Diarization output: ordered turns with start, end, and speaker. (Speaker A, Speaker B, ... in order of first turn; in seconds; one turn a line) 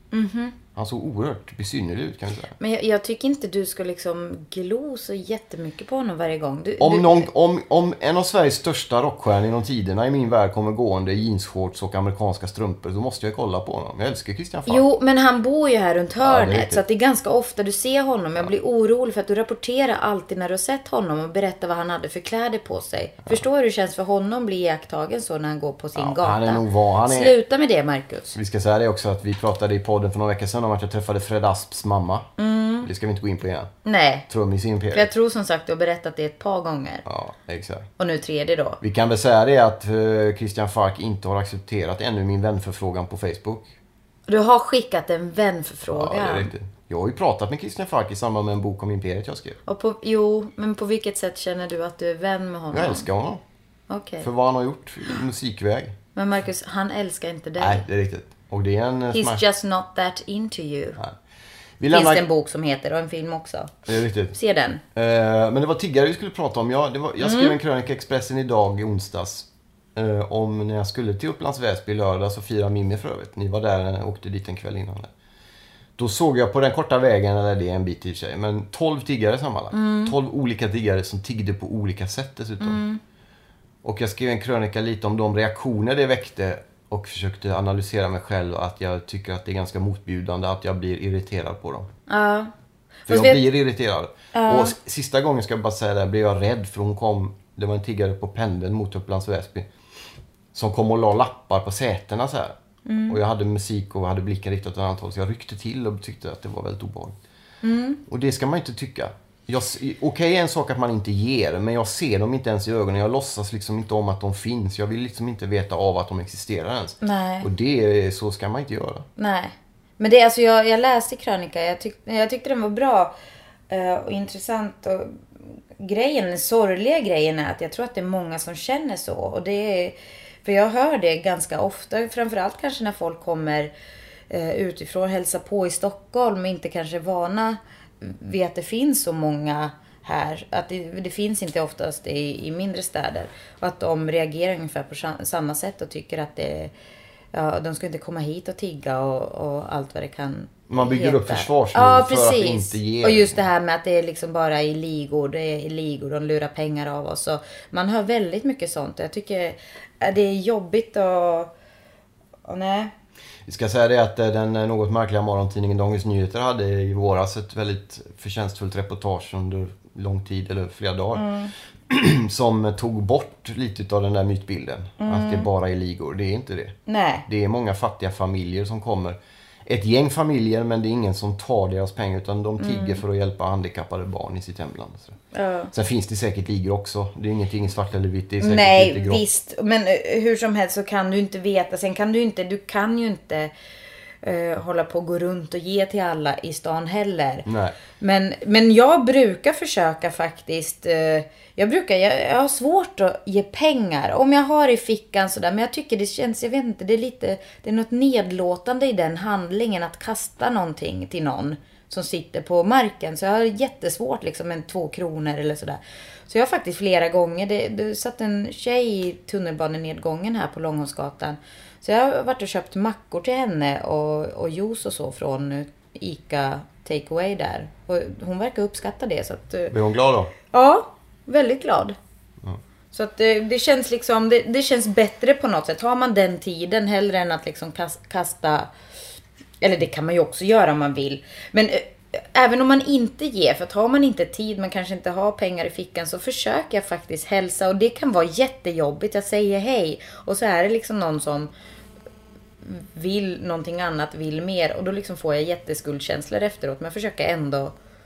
Speaker A: 0.1-0.6
Speaker B: 0.7-2.5
Speaker A: 2.6-7.3
Speaker B: 6.8-14.8
Speaker A: 14.7-28.4
Speaker B: 16.2-16.8
Speaker B: 25.9-27.3
Speaker B: 28.3-32.3
Speaker A: 32.4-32.9
Speaker B: 32.8-33.7
Speaker A: 33.8-34.3
Speaker B: 34.3-35.1
Speaker A: 34.9-37.0
Speaker B: 37.0-37.9
Speaker A: 38.0-38.8
Speaker B: 38.8-43.7
Speaker A: 44.3-46.5
Speaker B: 45.9-49.6
Speaker A: 49.6-53.1
Speaker B: 52.7-53.4
Speaker A: 53.9-54.3
Speaker B: 54.2-55.9
Speaker A: 56.1-57.8
Speaker B: 57.6-59.4
Speaker A: 59.1-61.0
Speaker B: 61.8-62.2
Speaker A: 61.9-64.8
Speaker B: 63.9-64.3
Speaker B: 64.9-75.1
Speaker A: 67.2-67.5
Speaker B: 76.0-82.8
Speaker A: 79.7-80.1
Speaker A: 82.6-83.0
Speaker B: 83.8-91.9
Speaker A: 92.1-92.5
Speaker A: 93.1-93.4
Speaker B: 93.1-99.7
Speaker A: 94.3-94.8
Speaker B: 100.5-102.5
Speaker A: 102.8-103.2
Speaker B: 103.1-107.2
Speaker A: 107.6-108.0
Speaker B: 108.1-119.0
Speaker A: 117.0-117.5
Speaker A: 119.2-123.1
Speaker A: 123.7-133.7
Speaker A: 134.3-146.7
Speaker A: 147.3-161.5
Speaker B: 150.7-153.4
Speaker A: 162.5-162.9
Speaker B: 163.4-171.3
Speaker A: 171.1-171.5
Speaker B: 171.9-185.2
Speaker A: 175.0-175.5
Speaker A: 176.8-177.2
Speaker A: 182.6-183.0
Speaker A: 185.3-185.7
Speaker B: 185.7-189.2
Speaker A: 188.4-193.5
Speaker A: 194.2-197.4
Speaker B: 197.4-197.8
Speaker A: 198.0-229.7
Speaker B: 229.7-230.3
Speaker A: 230.5-231.9
Speaker A: 232.9-238.7
Speaker A: 239.6-251.5
Speaker A: 252.6-257.7